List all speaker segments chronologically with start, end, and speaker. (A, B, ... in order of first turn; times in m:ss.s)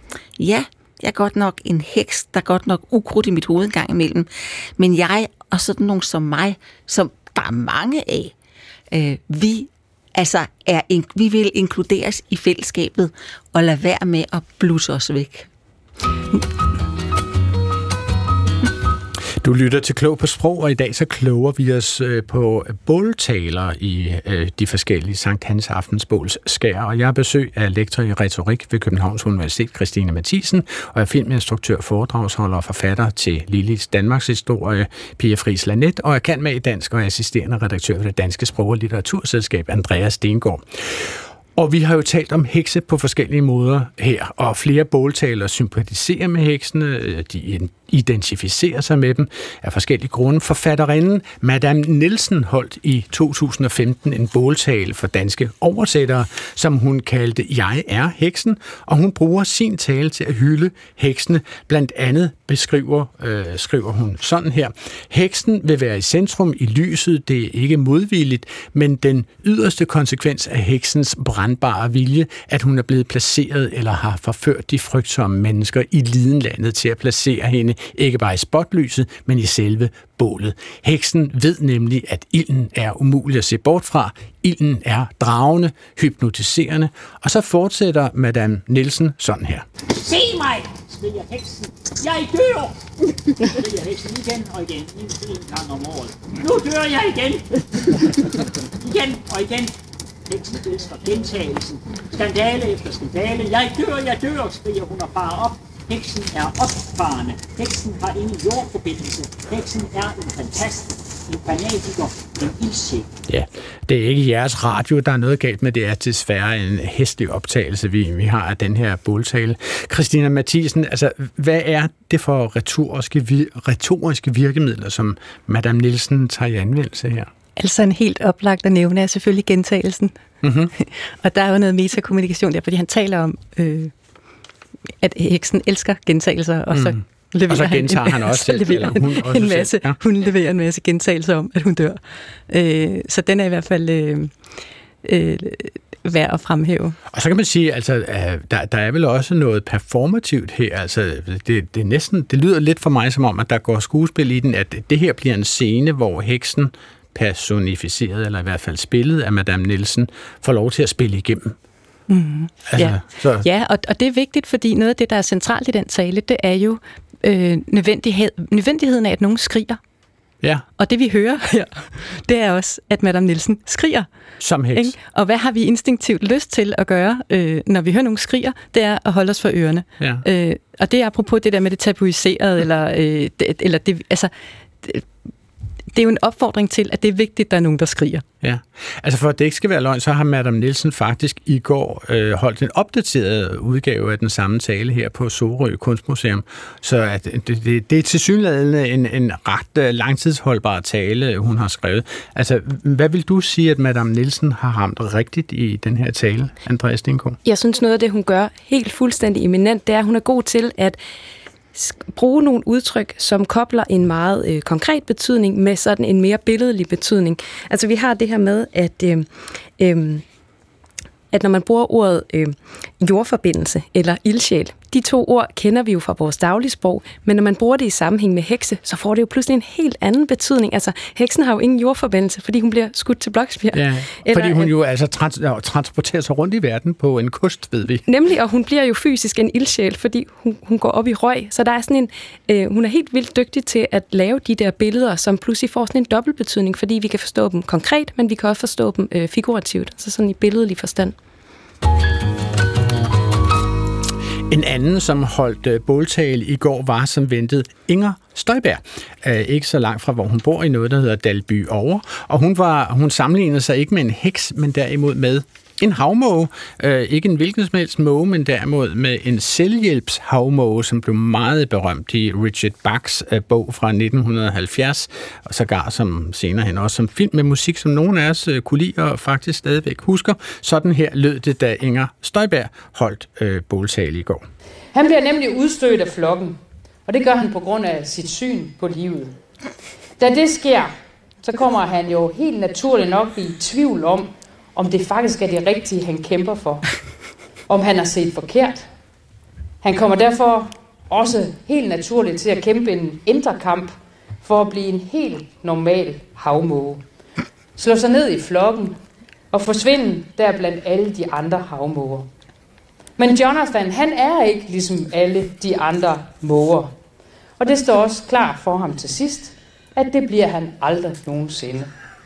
0:00.4-0:08.3 A
0:08.9-0:15.5 A
0:19.4-1:29.6 B
1:29.9-1:32.8 C
1:33.3-1:39.7 C
1:40.3-1:53.1 C
1:53.3-2:07.3 B
2:07.6-2:10.2 D
2:10.4-2:10.7 B
2:10.8-2:13.9 D
2:15.0-2:24.3 D
2:16.7-2:20.0 B
2:25.0-2:27.0 D
2:27.1-2:41.6 B
2:42.1-2:49.8 D
2:42.7-2:43.5 B
2:50.8-2:54.1 D
2:54.4-2:55.0 B
2:54.7-3:04.3 D
3:00.0-3:00.2 B
3:05.9-3:08.2 D
3:08.4-3:27.4 B
3:27.4-3:31.0 E
3:31.7-3:40.2 E
3:41.3-3:54.7 E
3:53.7-3:58.0 B
3:58.1-4:11.1 E
4:14.5-4:44.4 B
4:44.9-4:49.4 F
4:50.2-4:56.8 F
4:57.7-4:58.8 F
4:59.8-5:07.0 F
5:07.8-5:09.0 F
5:09.5-5:12.3 F
5:13.2-5:16.9 F
5:17.6-5:21.9 F